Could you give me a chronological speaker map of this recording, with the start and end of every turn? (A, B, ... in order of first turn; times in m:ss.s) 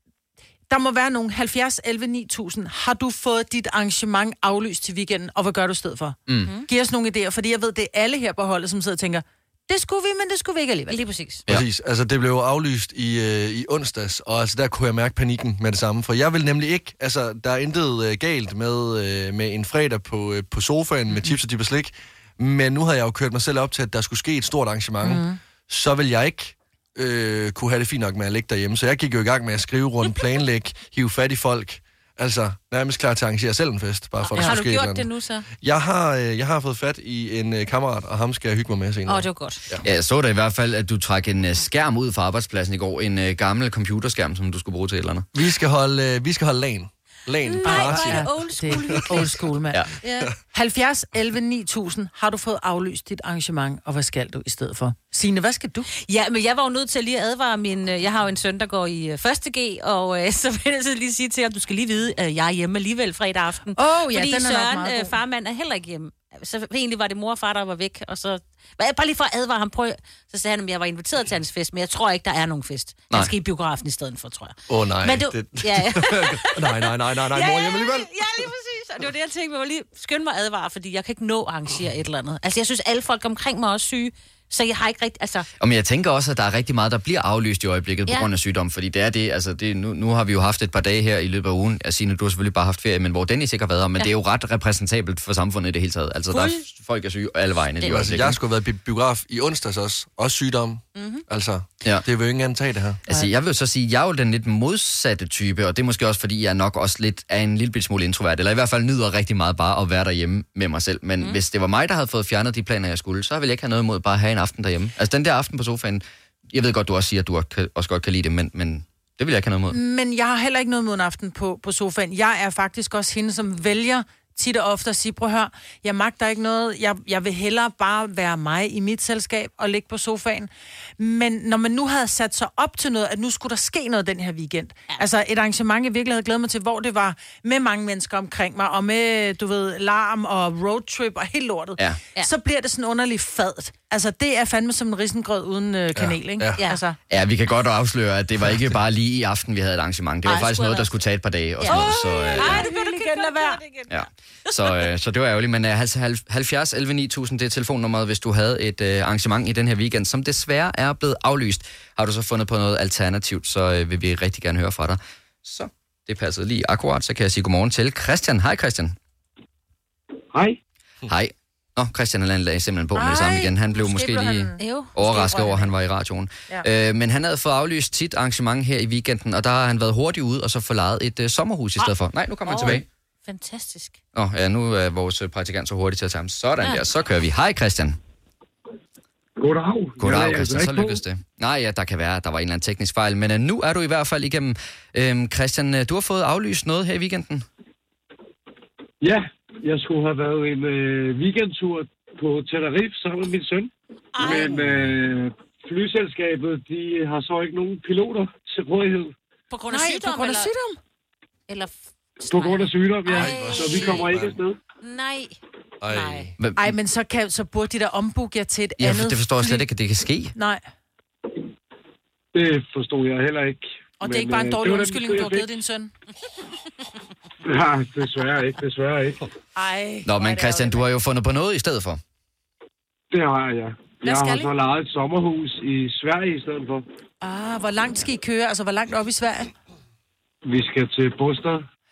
0:00.7-0:11.0 A
0:06.3-0:06.5 B
0:10.9-0:11.4 C
0:11.5-0:35.1 D
0:25.0-0:25.4 A
0:34.2-0:35.4 C
0:35.6-0:39.8 D
0:39.1-0:39.6 C
0:39.8-0:45.3 B
0:45.3-0:48.3 D
0:47.4-0:49.5 C
0:47.6-0:49.9 A
0:50.0-0:50.3 C
0:50.5-0:55.9 A
0:56.0-1:25.5 C
1:03.8-1:05.1 A
1:14.7-1:18.1 D
1:25.6-1:38.4 B
1:36.3-1:36.6 C
1:37.9-1:43.0 D
1:41.0-1:41.2 C
1:43.1-1:59.8 B
1:59.7-2:27.0 A
2:25.9-2:26.6 D
2:27.1-2:32.7 B
2:30.2-2:30.9 C
2:31.6-2:34.9 C
2:31.6-2:33.6 A
2:33.9-2:49.0 B
2:50.3-2:50.6 E
2:51.1-3:02.8 B
2:52.9-2:55.7 A
2:54.6-2:54.9 C
3:02.4-3:04.0 C
3:04.1-3:08.0 B
3:09.4-3:11.0 E
3:10.0-3:17.4 B
3:19.0-3:29.1 E
3:24.1-3:24.6 C
3:29.5-3:30.5 C
3:29.7-3:30.8 A
3:31.5-3:34.2 C
3:32.3-3:34.6 E
3:33.1-3:34.4 D
3:34.8-3:36.3 C
3:35.8-3:36.4 D
3:36.4-3:36.7 B
3:36.6-3:39.6 A
3:38.8-3:40.4 B
3:40.4-3:40.6 A
3:42.3-3:45.5 E
3:44.0-3:45.9 A
3:47.4-3:49.2 E
3:49.6-3:50.9 A
3:50.1-3:52.0 B
3:53.1-3:56.8 E
3:54.0-3:54.5 A
3:57.2-3:59.5 A
4:00.5-4:01.6 E